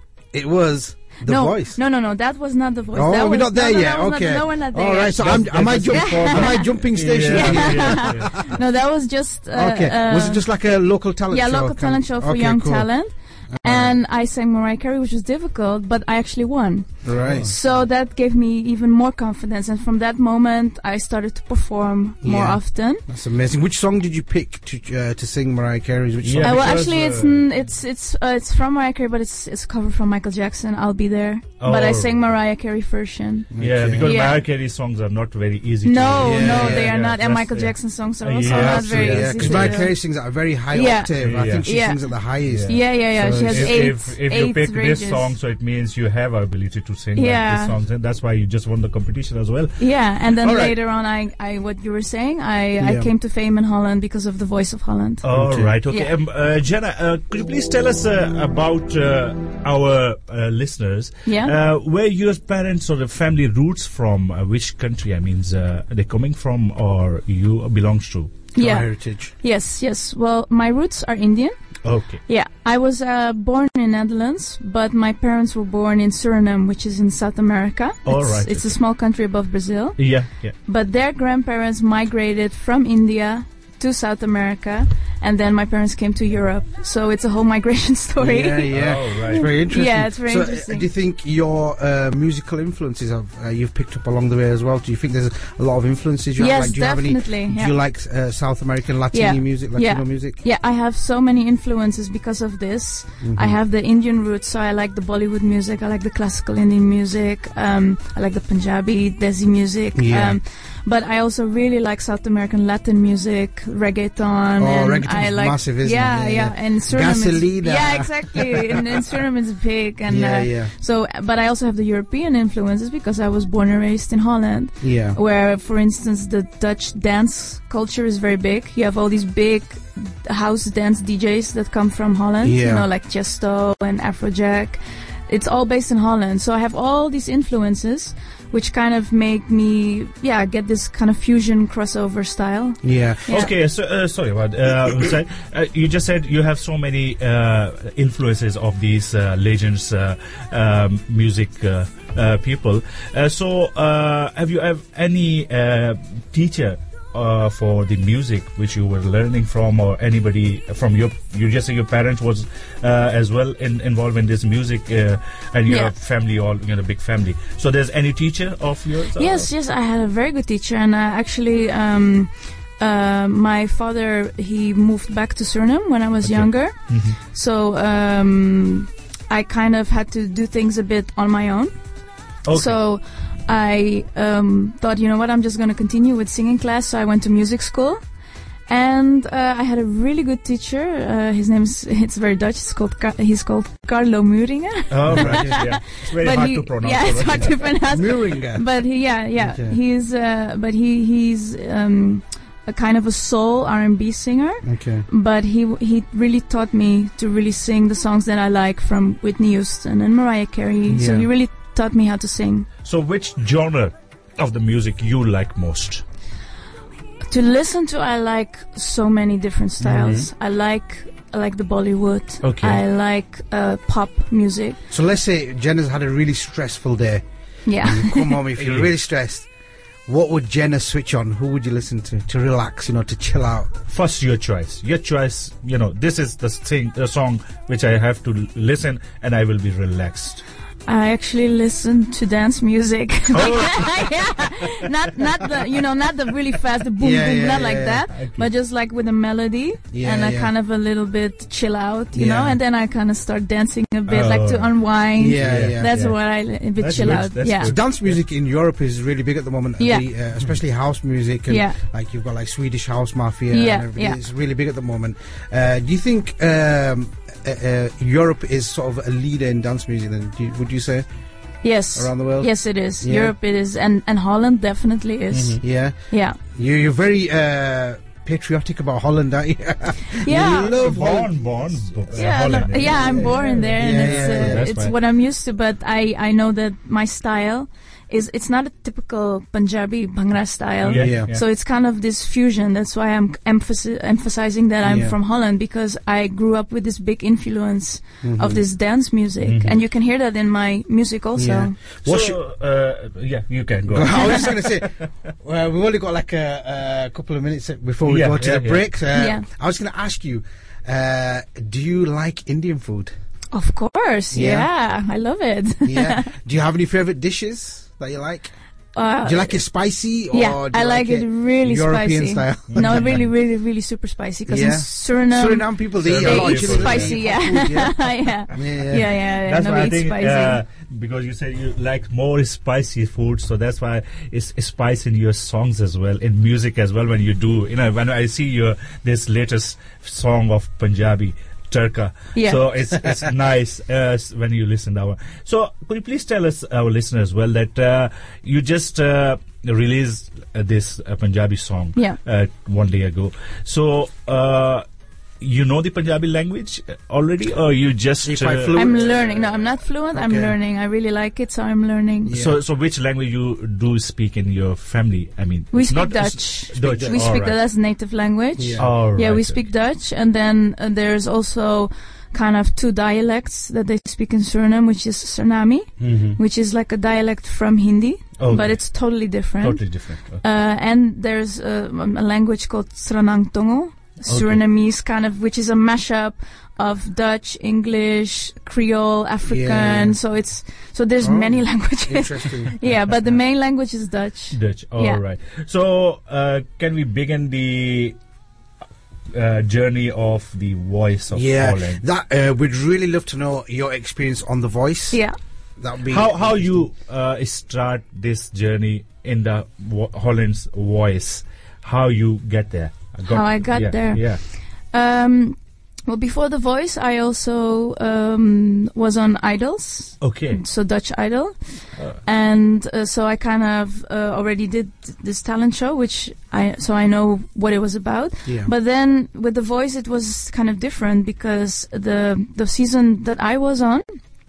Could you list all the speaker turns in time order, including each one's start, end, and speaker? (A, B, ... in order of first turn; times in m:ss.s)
0:00.3-0:01.8 A
0:01.2-0:05.3 B
0:02.9-0:08.3 A
0:05.2-0:08.4 C
0:05.9-0:23.0 B
0:09.5-0:13.9 A
0:17.0-0:17.5 A
0:17.2-0:17.6 C
0:22.2-0:26.8 A
0:26.2-0:27.5 C
0:26.4-0:34.4 B
0:31.6-0:32.2 C
0:33.5-0:34.1 A
0:33.6-0:39.9 C
0:35.8-0:40.0 B
0:36.2-0:36.9 A
0:38.4-0:44.0 A
0:40.7-0:45.3 B
0:41.2-0:41.7 C
0:42.5-0:50.8 C
0:47.2-0:47.8 B
0:49.8-0:55.2 B
0:52.8-0:53.1 A
0:55.2-1:08.4 C
0:55.3-0:55.7 A
1:01.2-1:01.5 B
1:08.6-1:30.9 B
1:08.6-1:09.3 A
1:11.8-1:12.2 C
1:18.1-1:18.8 C
1:20.0-1:20.6 C
1:28.2-1:40.4 A
1:28.7-1:29.4 C
1:36.4-1:37.8 B
1:39.1-2:23.5 B
1:43.2-1:43.6 A
1:49.9-1:50.4 A
1:54.6-1:58.7 A
2:00.1-2:00.7 A
2:04.8-2:05.2 A
2:12.4-2:12.9 A
2:22.8-2:23.2 A
2:23.3-2:49.5 C
2:45.7-2:45.9 B
2:49.2-3:08.0 B
2:56.2-2:57.2 C
3:02.4-3:02.8 C
3:08.7-3:32.7 B
3:14.9-3:17.7 C
3:15.1-3:15.7 A
3:17.9-3:19.8 A
3:24.6-3:25.1 A
3:30.9-3:31.3 A
3:32.8-3:36.0 C
3:37.3-3:44.8 B
3:39.8-3:40.3 A
3:42.4-3:42.8 C
3:44.9-3:49.5 A
3:47.6-3:48.4 B
3:48.6-3:48.9 C
3:50.1-3:53.7 A
3:53.9-4:00.4 C
4:00.9-4:17.7 B
4:03.3-4:04.5 C
4:07.0-4:08.1 A
4:08.1-4:08.5 C
4:09.9-4:10.5 A
4:12.1-4:12.6 A
4:14.1-4:18.2 C
4:15.2-4:15.9 A
4:17.0-4:31.1 A
4:19.8-4:20.1 B
4:21.5-4:21.8 B
4:23.5-4:24.2 B
4:31.6-4:36.4 B
4:31.9-4:33.3 A
4:35.3-4:35.6 C
4:35.6-4:44.7 A
4:40.2-4:40.8 B
4:40.6-4:44.9 C
4:42.2-5:01.8 B
4:50.8-4:51.4 C
4:51.0-4:51.3 A
4:54.8-4:55.2 A
4:58.2-4:58.6 A
4:59.4-4:59.8 C
5:01.4-5:02.4 A
5:02.0-5:04.9 C
5:03.9-5:13.1 A
5:08.0-5:08.8 C
5:09.2-5:09.4 B
5:13.5-5:16.3 B
5:14.3-5:14.7 A
5:15.8-5:18.5 A
5:18.9-5:19.7 B
5:19.2-5:23.2 A
5:20.3-5:30.6 B
5:22.7-5:23.2 C
5:24.5-5:29.0 A
5:26.0-5:27.2 C
5:29.4-5:54.8 C
5:42.3-5:42.6 B
5:55.4-5:59.1 C
5:58.2-5:59.5 A
5:58.7-6:02.3 B
6:00.1-6:00.5 A
6:02.2-6:02.6 A
6:02.3-6:07.6 C
6:05.7-6:35.2 B
6:06.8-6:07.3 A
6:08.6-6:08.9 A
6:08.8-6:09.6 C
6:16.0-6:16.4 C
6:18.4-6:20.4 C
6:24.3-6:24.6 C
6:29.4-6:30.2 A
6:31.2-6:32.7 A
6:34.5-6:38.2 C
6:39.3-6:42.0 C
6:41.3-6:46.9 A
6:45.1-6:45.4 B
6:46.1-6:54.4 C
6:53.3-7:14.2 B
7:00.2-7:00.6 C
7:02.0-7:02.2 C
7:08.4-7:08.7 A